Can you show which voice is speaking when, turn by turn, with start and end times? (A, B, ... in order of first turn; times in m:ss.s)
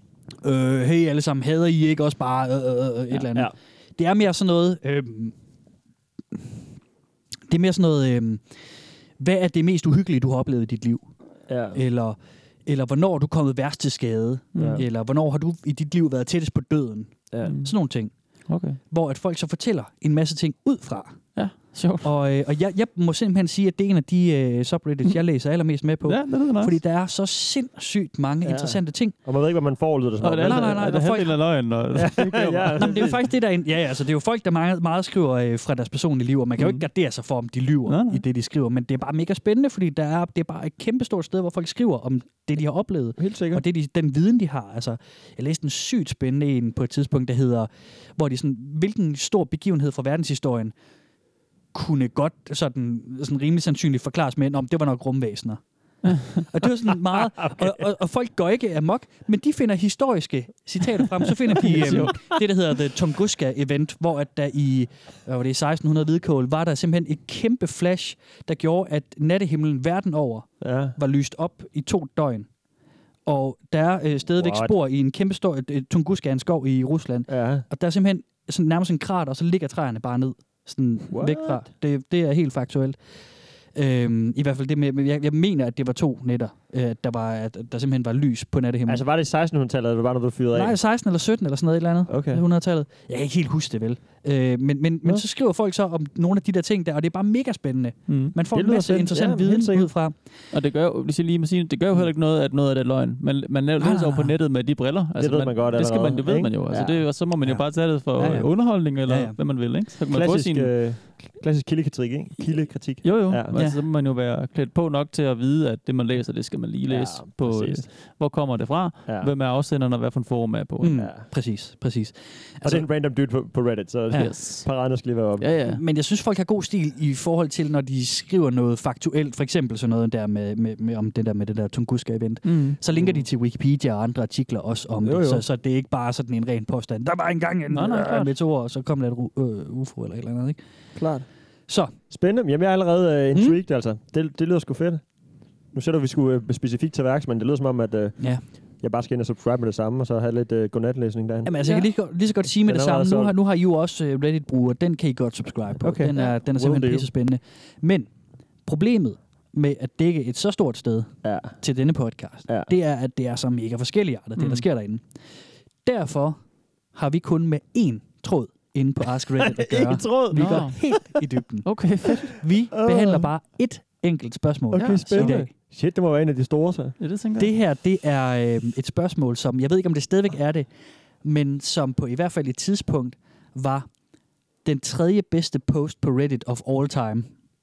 0:00.4-0:05.3 A
0:07.5-0:08.7 A
0:09.2-0:11.1 A
0:11.5-0:11.8 B
0:11.7-0:18.1 A
0:14.6-0:14.8 C
0:14.6-0:14.8 B
0:17.4-0:17.8 C
0:18.5-0:18.8 C
0:18.9-0:21.4 A
0:21.4-0:22.1 C
0:22.0-0:29.2 A
0:26.0-0:26.8 C
0:28.4-0:31.1 B
0:30.2-0:33.0 C
0:30.4-0:31.6 A
0:32.0-0:33.3 B
0:32.8-0:50.8 A
0:37.9-0:38.2 C
0:43.2-0:43.6 B
0:51.7-1:12.5 A
0:57.4-0:57.8 B
1:01.6-1:02.4 C
1:10.6-1:11.0 B
1:13.3-1:23.2 A
1:14.4-1:14.7 B
1:17.3-1:17.7 B
1:21.1-1:21.7 B
1:23.7-1:29.0 A
1:28.9-1:30.8 B
1:30.5-1:40.2 A
1:32.1-1:32.4 B
1:38.1-1:38.4 C
1:38.5-1:39.9 B
1:40.5-1:50.9 C
1:43.8-1:44.3 A
1:45.2-1:47.1 B
1:47.4-1:49.4 A
1:50.1-1:53.6 B
1:53.0-2:01.0 C
1:53.5-1:53.8 A
1:56.9-1:57.9 B
1:59.1-1:59.3 B
2:00.8-2:02.9 A
2:00.9-2:01.2 B
2:02.6-2:05.5 B
2:04.1-2:05.8 C
2:05.7-2:20.6 A
2:12.4-2:12.8 C
2:12.9-2:13.3 B
2:15.0-2:15.4 B
2:17.7-2:18.3 C
2:21.0-2:21.3 B
2:21.7-2:21.9 A
2:22.1-2:25.1 B
2:25.7-2:31.6 B
2:31.5-2:38.1 A
2:32.4-2:33.4 B
2:35.8-2:37.1 B
2:38.6-2:45.1 A
2:41.2-2:41.6 B
2:42.5-2:42.7 B
2:44.4-2:44.6 C
2:45.8-2:46.4 A
2:46.9-2:55.5 A
2:49.4-2:51.0 B
2:50.3-2:51.1 C
2:51.6-2:52.4 C
2:52.7-2:53.3 B
2:54.7-2:57.0 B
2:54.8-2:55.4 C
2:57.0-2:57.5 C
2:57.4-3:00.7 A
3:01.2-3:03.9 A
3:04.6-3:07.3 A